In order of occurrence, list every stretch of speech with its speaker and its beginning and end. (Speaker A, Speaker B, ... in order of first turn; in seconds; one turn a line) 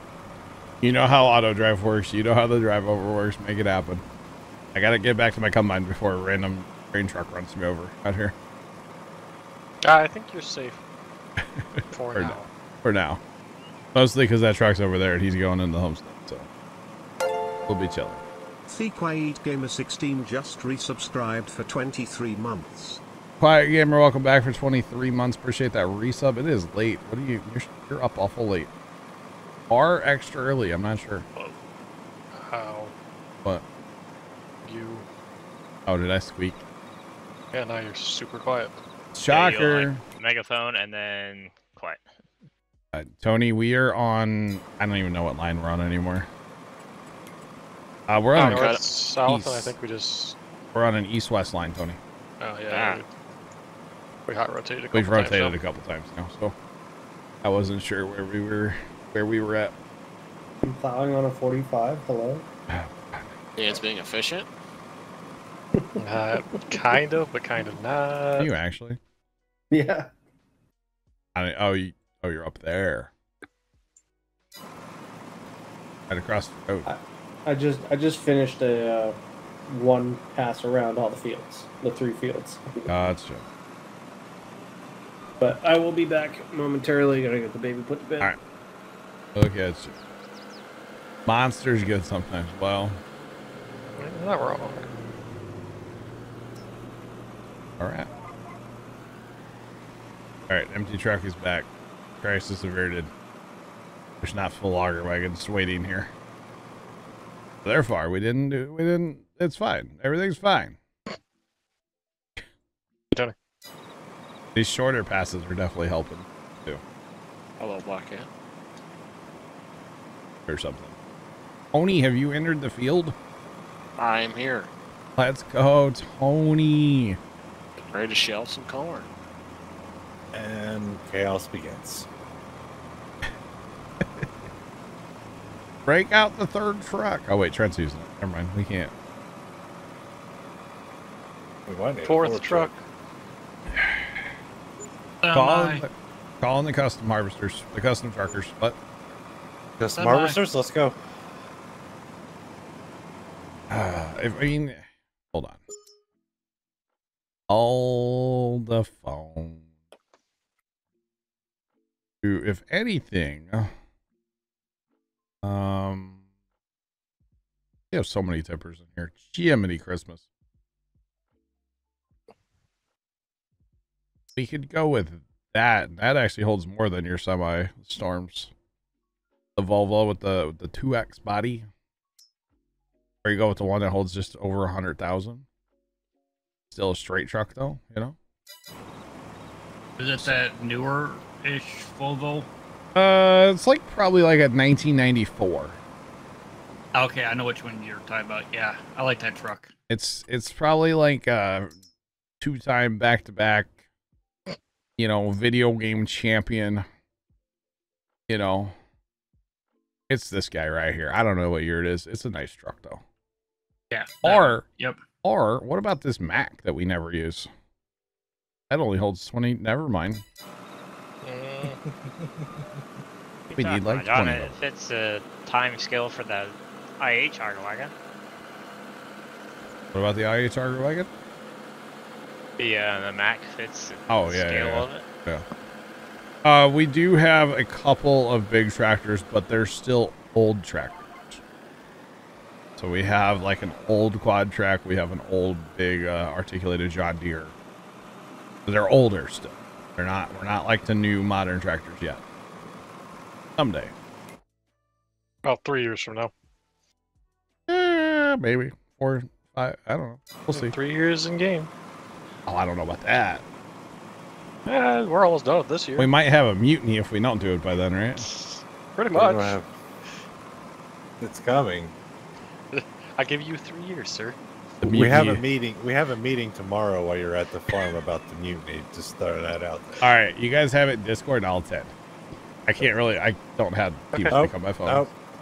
Speaker A: 0.8-4.0
Speaker A: 4.7-8.3
Speaker B: 9.8-10.8
Speaker A: 11.4-13.2
Speaker B: 11.9-12.5
Speaker A: 13.9-16.5
Speaker A: 17.7-18.2
Speaker C: 18.7-23.0
Speaker A: 23.4-28.7
Speaker A: 29.7-31.3
Speaker B: 32.3-32.9
Speaker B: 34.6-35.1
Speaker A: 35.9-36.6
Speaker B: 37.5-38.8
Speaker A: 39.1-40.0
Speaker D: 39.3-42.0
Speaker A: 42.9-46.3
Speaker A: 48.1-49.8
Speaker B: 48.4-50.4
Speaker E: 48.4-48.8
Speaker A: 50.7-52.0
Speaker B: 52.4-53.1
Speaker E: 52.7-53.0
Speaker B: 54.3-55.6
Speaker A: 54.9-56.5
Speaker A: 57.4-59.8
Speaker F: 60.6-62.5
Speaker A: 62.7-63.3
Speaker E: 63.6-64.5
Speaker B: 66.0-68.5
Speaker A: 68.3-69.0
Speaker F: 69.7-70.1
Speaker A: 71.3-73.1
Speaker A: 76.1-76.9
Speaker F: 76.9-82.9
Speaker A: 82.9-83.5
Speaker F: 85.4-88.3
Speaker A: 89.4-90.0
Speaker A: 91.3-93.0
Speaker B: 94.0-94.8
Speaker A: 97.8-98.1
Speaker A: 100.5-101.7
Speaker A: 102.2-103.1
Speaker A: 104.2-106.1
Speaker A: 107.6-110.8
Speaker A: 114.5-116.8
Speaker E: 117.6-118.3
Speaker A: 120.5-120.9
Speaker A: 121.7-123.2
Speaker E: 124.0-124.7
Speaker A: 125.2-127.2
Speaker E: 127.8-129.1
Speaker G: 130.3-132.1
Speaker A: 135.9-138.9
Speaker G: 141.7-142.8
Speaker B: 142.0-142.8
Speaker A: 143.8-144.1
Speaker H: 145.2-145.8
Speaker A: 145.3-148.8
Speaker G: 149.8-151.0
Speaker H: 150.0-150.3
Speaker A: 153.7-155.6
Speaker A: 157.5-159.6
Speaker A: 162.2-163.7
Speaker A: 165.4-166.2
Speaker A: 167.9-170.2
Speaker A: 174.4-178.5
Speaker A: 179.6-181.7
Speaker A: 183.2-185.4
Speaker A: 186.7-188.2
Speaker H: 190.0-192.5
Speaker A: 192.9-195.8
Speaker H: 196.9-199.7
Speaker A: 199.9-201.7
Speaker A: 202.4-203.7
Speaker A: 205.0-206.9
Speaker A: 208.3-208.8
Speaker A: 210.1-213.0
Speaker H: 213.9-215.0
Speaker A: 214.2-214.6
Speaker A: 215.2-217.5
Speaker A: 218.7-220.2
Speaker B: 221.2-221.8
Speaker G: 221.7-222.4
Speaker A: 223.5-224.5
Speaker D: 223.6-227.9
Speaker A: 229.9-231.1
Speaker D: 232.6-235.1
Speaker A: 234.1-235.4
Speaker A: 236.4-241.4
Speaker A: 242.8-247.6
Speaker A: 248.7-252.2
Speaker A: 253.6-253.9
Speaker B: 255.4-256.3
Speaker A: 257.7-260.7
Speaker B: 260.5-261.7
Speaker A: 262.5-263.4
Speaker B: 264.7-266.1
Speaker A: 266.0-268.3
Speaker B: 268.2-269.6
Speaker G: 269.1-269.7
Speaker G: 271.2-271.9
Speaker B: 272.7-274.4
Speaker G: 274.8-280.1
Speaker A: 274.8-275.4
Speaker A: 280.0-281.9
Speaker A: 282.7-285.1
Speaker B: 284.1-284.4
Speaker G: 284.3-285.1